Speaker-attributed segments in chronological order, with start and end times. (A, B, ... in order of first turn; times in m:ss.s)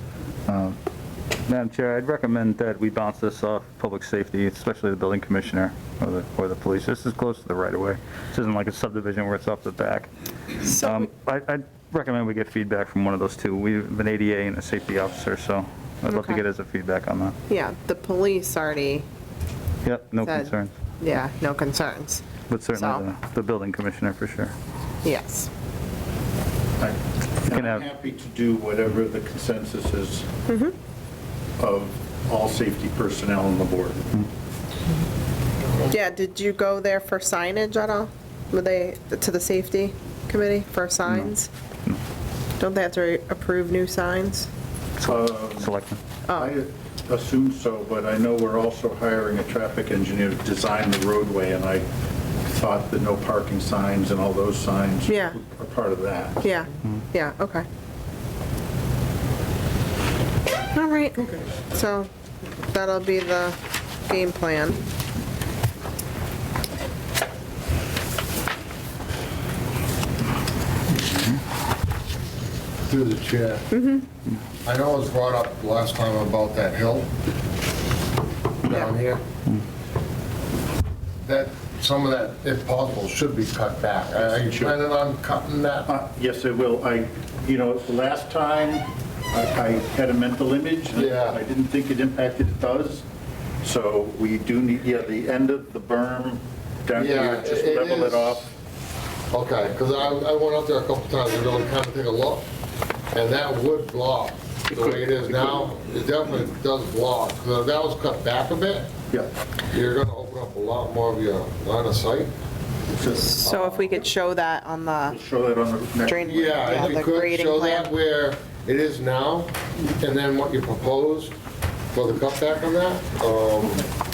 0:00.5-0:00.8 A
0:01.5-0:10.1 A
0:10.6-0:17.4 A
0:10.7-0:11.1 B
0:16.1-0:16.4 B
0:17.5-0:19.1 B
0:19.8-0:20.7 A
0:20.2-0:23.0 B
0:22.5-0:24.5 A
0:25.0-0:25.5 B
0:26.8-0:30.3 C
0:27.5-0:27.9 A
0:30.5-0:30.8 B
0:31.6-0:34.1 C
0:35.9-0:41.5 B
0:41.1-0:41.3 A
0:42.6-0:44.5 B
0:45.0-0:46.0 A
0:45.0-0:45.7 C
0:46.3-0:46.5 B
0:46.3-0:51.9 C
0:52.4-0:56.4 C
0:55.1-0:55.4 B
0:56.4-0:57.6 B
1:00.7-1:02.1 B
1:02.6-1:04.8 B
1:12.9-1:13.7 D
1:13.7-1:14.1 B
1:14.6-1:17.1 D
1:18.6-1:19.2 D
1:21.2-1:25.9 D
1:24.2-1:24.8 C
1:25.9-1:33.0 C
1:31.0-1:31.4 D
1:33.6-1:38.5 C
1:37.0-1:38.4 D
1:39.3-1:42.5 D
1:43.1-1:48.9 D
1:44.7-1:45.6 C
1:49.7-1:52.3 D
1:52.9-1:53.2 C
1:53.2-1:55.2 B
1:53.5-1:53.8 D
1:55.1-1:57.0 C
1:56.0-1:57.9 B
1:56.3-2:01.3 D
2:01.9-2:03.9 D